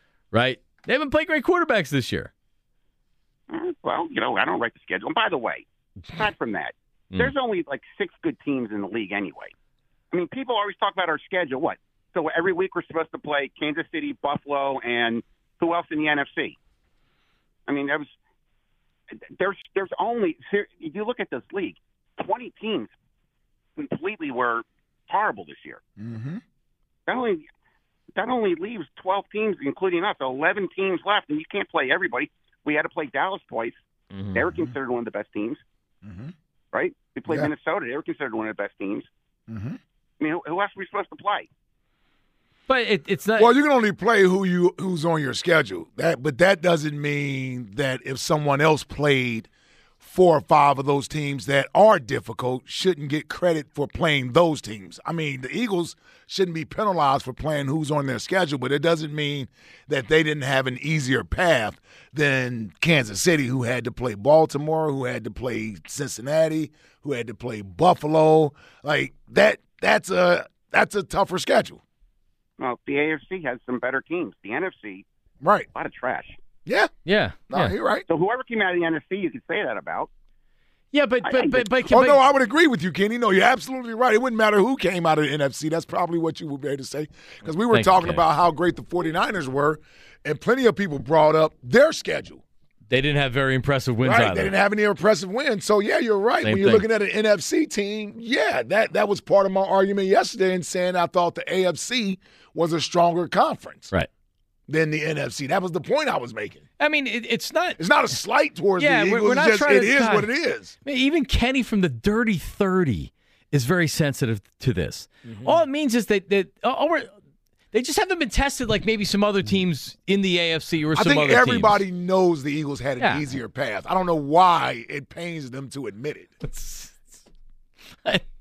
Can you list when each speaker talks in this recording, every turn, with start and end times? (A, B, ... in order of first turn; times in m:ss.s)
0:00.3-0:02.3 A
0:03.5-0:09.5 B
0:10.1-0:16.6 B
0:17.7-0:18.1 B
0:19.4-0:22.9 B
0:23.8-0:25.8 B
0:26.0-0:26.4 C
0:27.1-0:27.4 B
0:28.1-0:33.8 B
0:34.1-0:34.4 A
0:34.3-0:35.6 B
0:36.0-0:36.3 C
0:36.7-0:39.1 B
0:39.5-0:39.8 C
0:40.2-0:41.5 B
0:42.7-0:43.5 A
0:43.4-0:49.5 C
0:50.0-1:11.8 C
1:12.6-1:15.0 B
1:15.4-1:15.7 C
1:15.7-1:16.4 B
1:16.6-1:16.9 C
1:17.0-1:17.7 A
1:17.5-1:18.0 C
1:18.1-1:20.1 B
1:20.9-1:22.2 A
1:21.2-1:21.6 B
1:21.6-1:32.4 C
1:27.7-1:28.2 A
1:32.9-1:34.5 A
1:34.0-1:43.9 C
1:36.4-1:36.8 A
1:44.7-1:46.6 C
1:46.8-1:47.8 A
1:47.8-1:50.7 C
1:48.8-1:50.3 A
1:50.8-1:57.1 A
1:55.2-1:55.6 C
1:57.7-2:01.8 A
2:00.9-2:06.3 C
2:06.4-2:07.1 A